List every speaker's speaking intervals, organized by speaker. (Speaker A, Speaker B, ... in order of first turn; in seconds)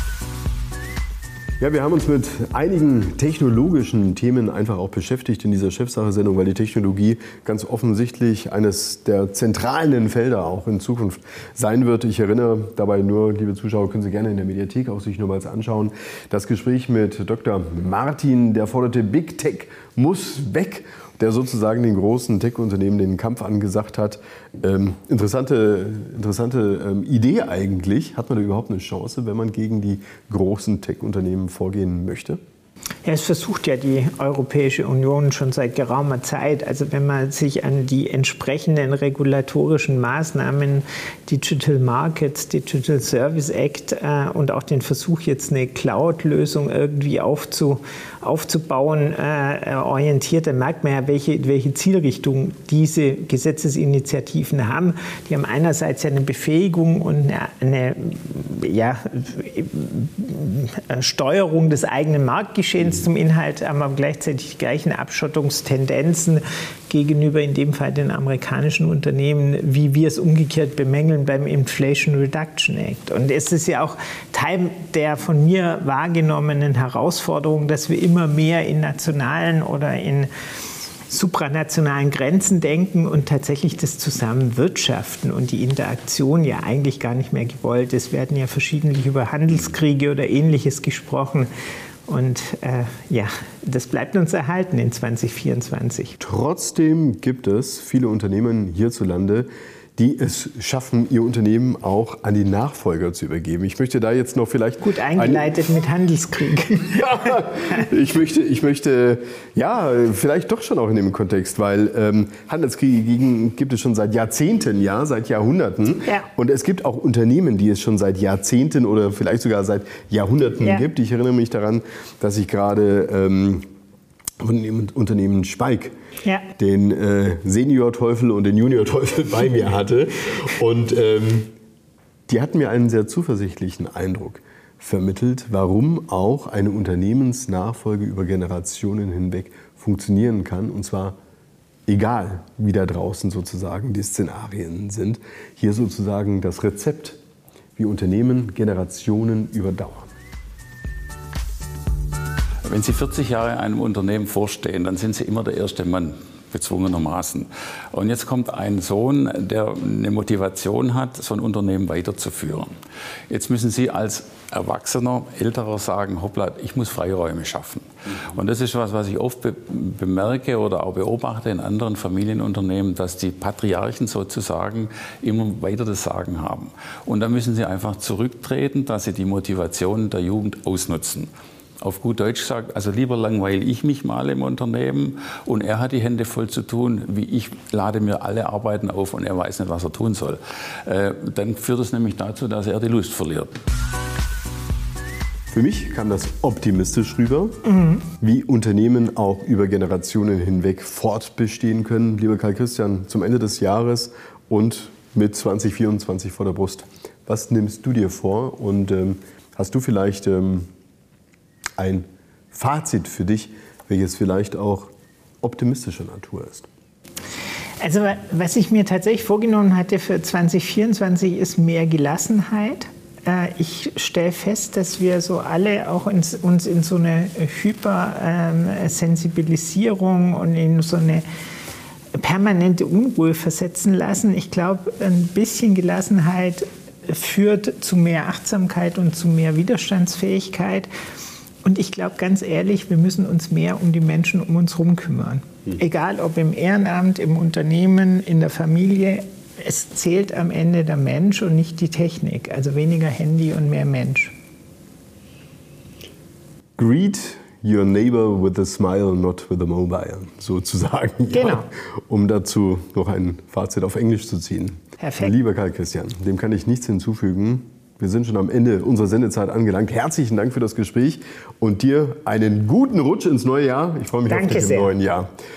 Speaker A: 1.6-32.4, 96.2-105.5, 106.8-123.7, 124.4-125.9, 126.6-131.5, 132.3-141.2, 141.8-147.2, 147.8-150.1, 195.5-210.7, 211.8-216.7, 256.8-275.3
Speaker B: 33.0-80.3, 81.1-91.5, 92.1-96.2, 104.8-107.0, 197.7-198.0, 217.8-231.2, 232.2-240.9, 241.6-254.3, 261.3-261.7, 265.0-265.3, 274.3-274.9
Speaker C: 152.7-162.7, 163.3-181.3, 181.8-193.6